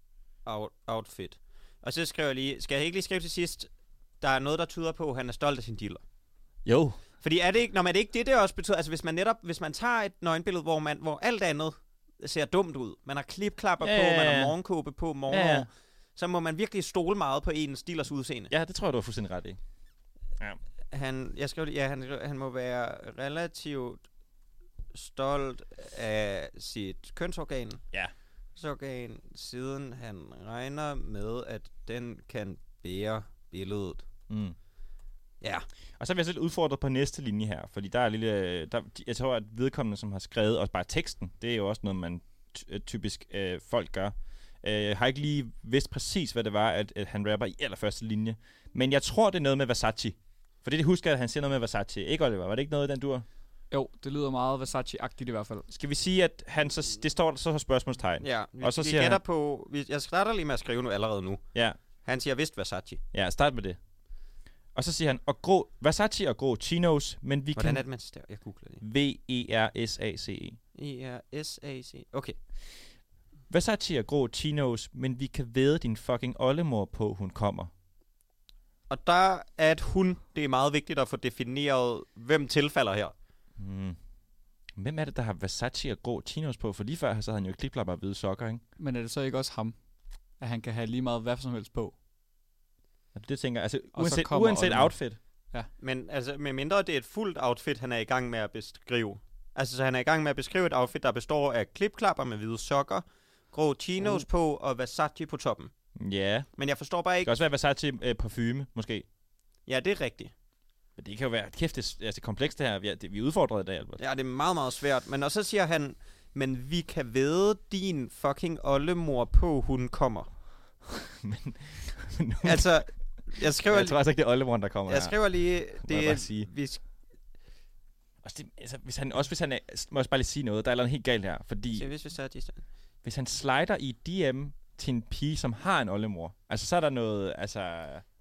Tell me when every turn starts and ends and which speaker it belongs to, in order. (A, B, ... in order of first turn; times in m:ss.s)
0:00.4-0:03.7 A
0:04.2-0:06.0 A
0:06.6-0:07.0 B
0:07.2-0:18.5 A
0:13.8-0:14.6 B
0:15.3-0:15.7 B
0:18.5-0:19.6 B
0:20.9-0:24.0 A
0:24.9-0:27.8 A
0:28.6-0:34.0 A
0:34.3-0:34.6 B
0:35.4-0:35.6 A
0:36.0-0:53.3 B
0:53.7-0:55.6 C
0:55.7-0:59.2 B
0:58.2-1:01.4 A
1:02.0-1:03.0 A
1:03.1-1:03.8 B
1:04.7-1:07.8 B
1:07.6-1:08.8 A
1:08.8-1:10.6 B
1:10.7-1:12.4 A
1:13.5-1:17.7 B
1:18.9-1:23.1 A
1:23.6-1:24.0 B
1:24.8-1:28.6 B
1:28.8-1:29.7 C
1:30.4-1:31.9 C
1:33.1-1:35.2 B
1:33.9-1:35.0 C
1:35.8-1:45.7 A
1:44.0-1:44.2 B
1:46.0-1:46.5 B
1:46.6-1:47.4 A
1:47.2-1:49.0 B
1:49.7-1:50.3 A
1:51.0-1:54.0 B
1:54.0-2:00.3 A
2:01.0-2:02.8 B
2:02.4-2:04.0 A
2:03.6-2:06.5 B
2:04.9-2:06.8 A
2:08.2-2:11.9 B
2:11.7-2:12.6 A
2:13.0-2:18.0 B